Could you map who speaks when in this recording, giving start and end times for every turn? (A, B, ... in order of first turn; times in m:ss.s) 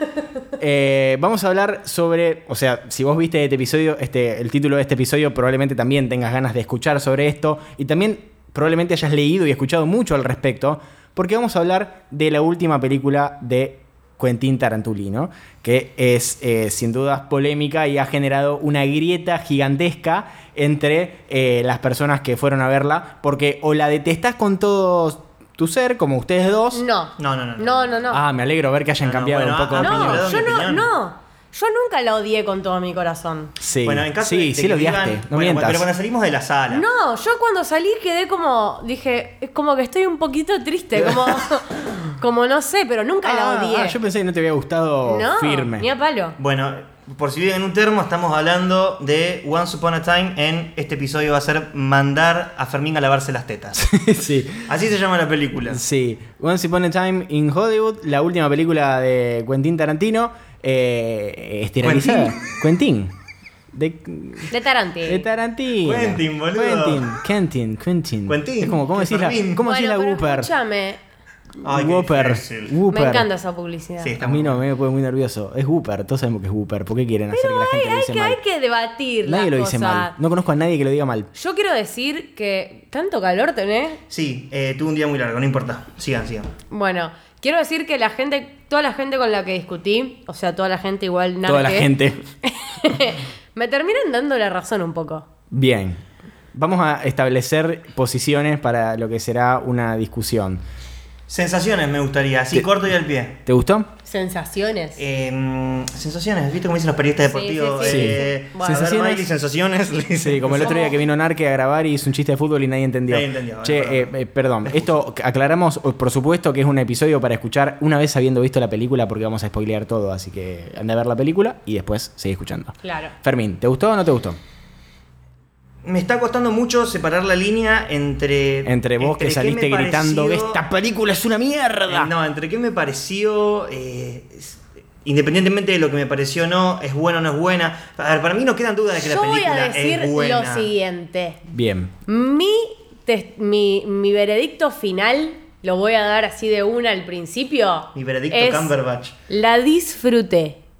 0:00.6-0:26.8 A
0:26.7-0:28.2 B
0:27.2-0:28.0 C
0:28.1-0:30.2 A
0:29.0-0:30.9 C
0:29.8-0:33.5 B
0:33.6-0:35.9 A
0:33.8-0:36.8 C
0:36.7-0:44.0 B
0:41.0-0:41.3 A
0:43.2-0:45.9 A
0:45.0-0:46.3 B
0:46.4-0:53.9 C
0:53.8-0:54.7 A
0:54.6-0:55.8 C
0:55.7-1:03.1 A
1:01.8-1:02.5 C
1:03.7-1:04.5 A
1:04.5-1:05.2 B
1:05.0-1:10.5 A
1:05.8-1:07.2 C
1:08.2-1:09.6 C
1:09.6-1:11.0 B
1:11.6-1:12.7 C
1:11.6-1:13.3 A
1:12.9-1:14.1 B
1:14.0-1:14.6 C
1:14.2-1:18.4 A
1:17.3-1:20.1 B
1:19.2-1:21.3 A
1:21.3-1:24.0 B
1:24.1-1:26.5 C
1:26.7-1:31.9 B
1:31.4-1:32.2 A
1:32.4-1:35.2 B
1:35.5-1:36.0 A
1:36.5-1:40.6 A
1:41.3-1:43.4 C
1:43.4-1:43.9 A
1:44.0-1:45.0 B
1:45.0-1:50.9 C
1:47.3-1:48.8 B
1:47.8-1:49.2 A
1:50.2-2:04.4 A
1:50.6-1:50.9 B
1:53.1-1:54.1 C
2:02.8-2:03.1 B
2:05.8-2:10.6 C
2:08.6-2:12.1 A
2:11.9-2:20.7 C
2:19.0-2:21.4 B
2:21.5-2:21.9 A
2:22.1-2:28.7 B
2:27.9-2:29.1 C
2:29.3-2:30.6 B